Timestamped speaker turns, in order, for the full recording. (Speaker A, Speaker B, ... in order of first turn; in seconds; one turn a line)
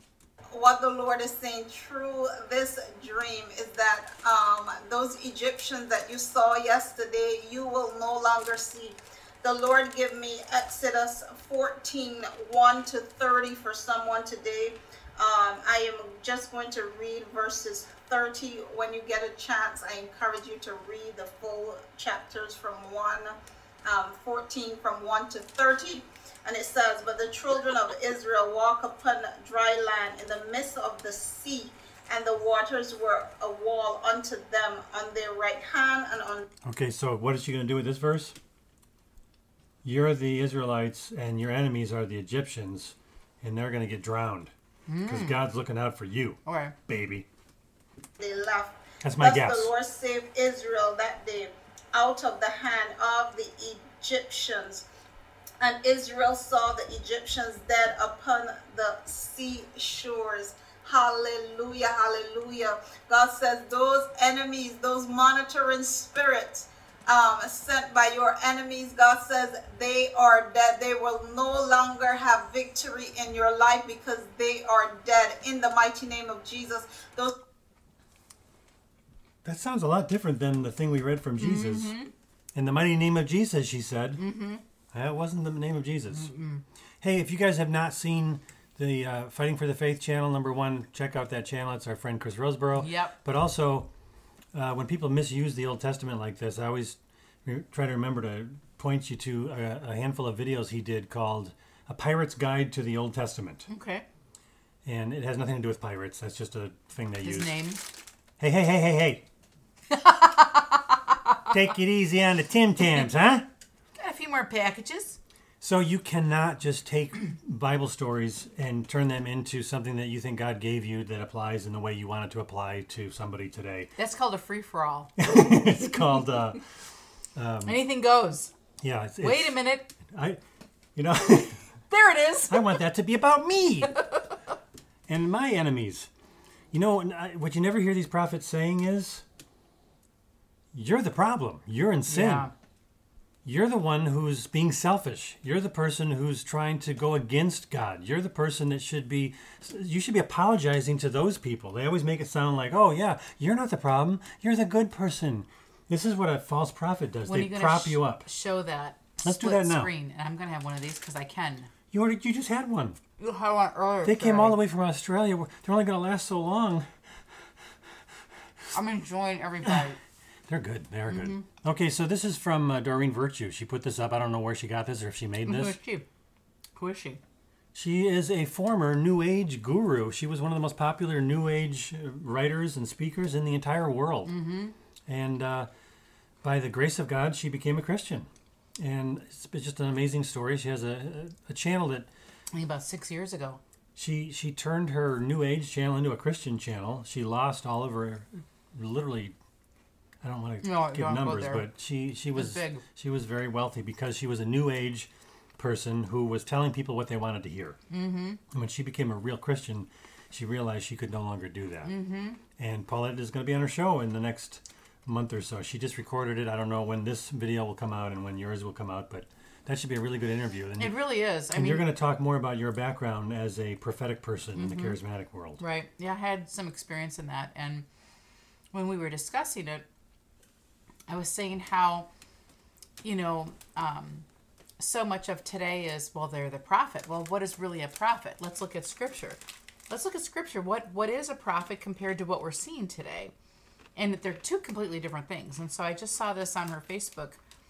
Speaker A: 0.5-36.4
Speaker B: 36.6-38.4
Speaker B: 39.8-44.5
Speaker C: 44.9-45.4
Speaker B: 45.0-47.2
Speaker C: 46.5-46.8
Speaker A: 48.2-54.8
Speaker B: 49.0-49.7
Speaker A: 55.6-77.3
Speaker B: 79.4-82.0
Speaker C: 81.4-82.1
Speaker B: 82.5-84.2
Speaker C: 84.2-84.6
Speaker B: 84.9-86.3
Speaker C: 86.1-86.6
Speaker B: 87.0-93.9
Speaker C: 92.7-93.1
Speaker B: 94.5-103.7
Speaker C: 103.7-104.0
Speaker B: 104.8-107.6
Speaker C: 107.2-107.8
Speaker B: 108.4-109.2
Speaker C: 109.9-111.3
Speaker B: 111.5-113.5
Speaker C: 114.0-115.2
Speaker B: 115.6-123.9
Speaker C: 124.0-125.1
Speaker B: 125.2-126.6
Speaker B: 127.3-127.9
Speaker C: 127.6-128.5
Speaker B: 128.8-130.4
Speaker C: 129.2-129.9
Speaker B: 130.9-131.6
Speaker C: 131.9-132.8
Speaker B: 132.5-134.0
Speaker C: 134.0-134.3
Speaker B: 135.1-136.1
Speaker B: 136.7-139.2
Speaker B: 140.7-142.5
Speaker C: 142.1-142.5
Speaker B: 143.4-158.3
Speaker C: 157.2-161.7
Speaker B: 159.2-159.9
Speaker B: 161.9-163.0
Speaker C: 163.2-164.6
Speaker B: 164.0-166.9
Speaker C: 168.7-170.0
Speaker B: 170.5-175.8
Speaker C: 171.1-171.4
Speaker C: 175.4-176.0
Speaker C: 176.8-177.2
Speaker B: 177.7-184.3
Speaker C: 184.2-184.8
Speaker B: 185.1-185.7
Speaker B: 186.4-192.1
Speaker C: 192.5-193.6
Speaker B: 193.9-199.3
Speaker B: 200.2-207.8
Speaker C: 200.6-201.7
Speaker C: 202.3-202.8
Speaker C: 207.9-208.4
Speaker B: 208.5-211.9
Speaker C: 211.8-212.4
Speaker B: 212.6-225.6
Speaker C: 220.8-221.9
Speaker C: 224.6-225.0
Speaker C: 225.6-227.8
Speaker C: 228.7-229.8
Speaker C: 231.1-232.1
Speaker C: 233.0-234.2
Speaker C: 234.8-243.3
Speaker C: 243.9-247.4